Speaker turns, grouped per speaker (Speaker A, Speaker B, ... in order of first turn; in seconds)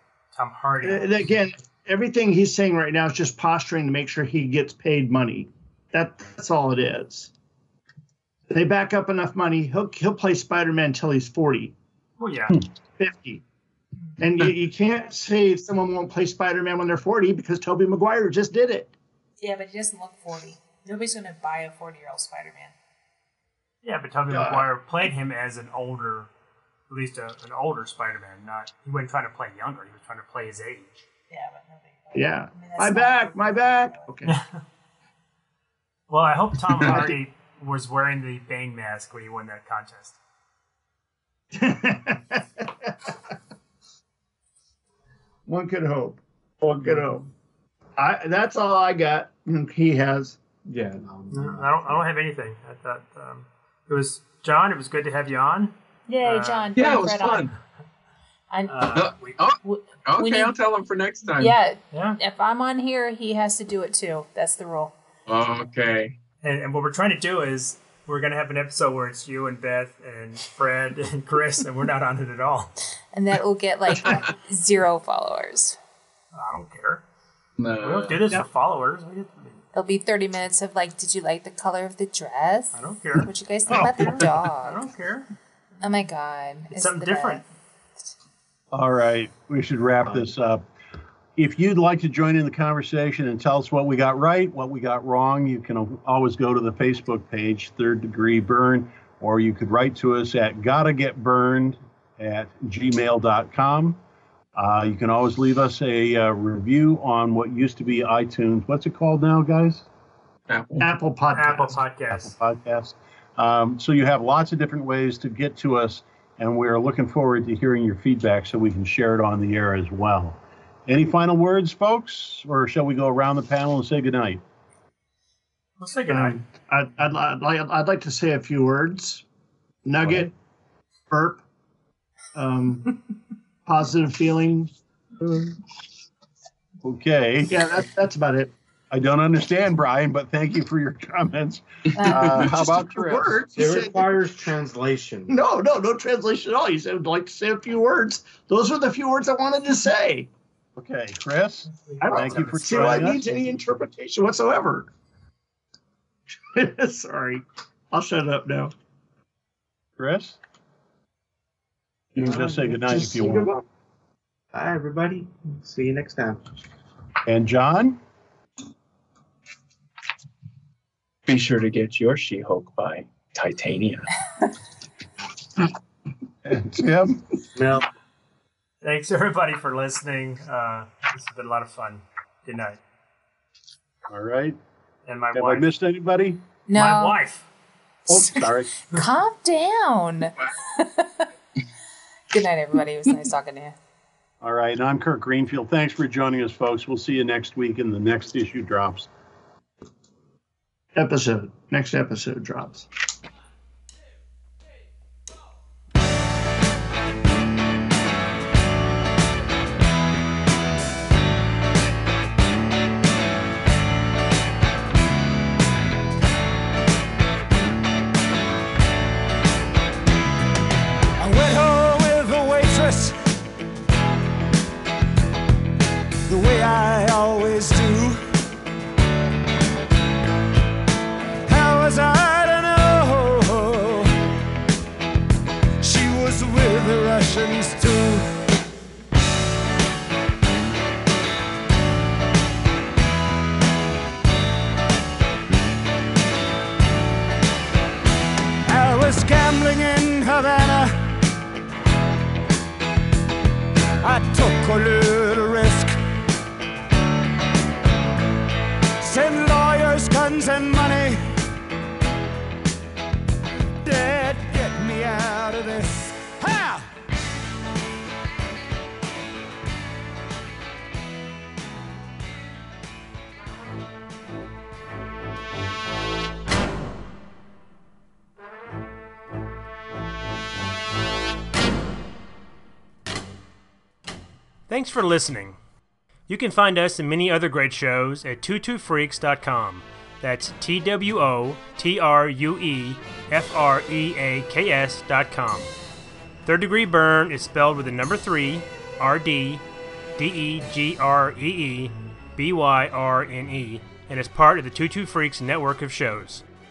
Speaker A: 0.3-1.2, 12.2-12.6, 23.8-26.3, 26.9-31.0, 34.2-34.6, 36.1-40.2, 51.3-56.8, 58.7-59.4, 61.9-62.2, 66.4-72.7, 76.3-77.0, 77.8-79.6, 82.7-85.3, 86.7-87.4, 111.3-112.3, 125.8-126.4, 151.7-153.1, 178.8-182.8, 185.1-185.7, 186.7-187.5, 284.7-285.6, 286.3-295.7, 296.4-299.6, 300.1-306.4
Speaker B: 0.8-7.3, 8.5-11.7, 13.0-13.4, 14.2-18.9, 32.1-34.4, 36.8-37.1, 41.5-43.1, 45.5-47.3, 48.0-50.4, 110.8-111.8, 126.1-129.2, 129.8-130.3, 131.1-131.4, 132.3-132.9, 133.7-134.7, 137.5-138.5, 142.0-144.2, 145.3-150.3, 152.0-154.9, 156.5-158.7, 163.2-163.5, 200.9-202.9
Speaker C: 19.4-22.7, 31.3-34.1, 56.1-57.5, 58.5-58.8, 59.6-60.5, 61.4-64.9, 73.1-75.8, 79.7-84.9, 85.8-87.4, 186.7-187.2, 188.1-191.3, 192.3-193.8
Speaker D: 24.3-24.6, 50.6-52.0, 90.0-90.3, 142.3-145.3, 162.2-163.5, 164.5-166.5, 177.5-177.8
Speaker E: 56.8-57.5, 58.9-61.5, 65.3-66.1, 77.6-78.3, 110.5-110.8, 171.2-174.1
Speaker F: 83.7-84.2, 88.7-90.6, 91.3-104.0, 104.5-109.9, 112.1-124.4, 136.8-137.6, 138.9-143.3, 150.8-153.2, 160.0-160.4, 162.2-163.5, 167.2-168.0, 176.4-177.2, 184.1-184.6, 185.3-186.4, 188.1-188.7, 194.4-199.1
Speaker G: 221.2-223.3, 226.2-228.3, 231.4-234.2, 235.8-238.4, 248.6-251.1, 254.0-256.0, 259.0-261.4, 263.8-266.9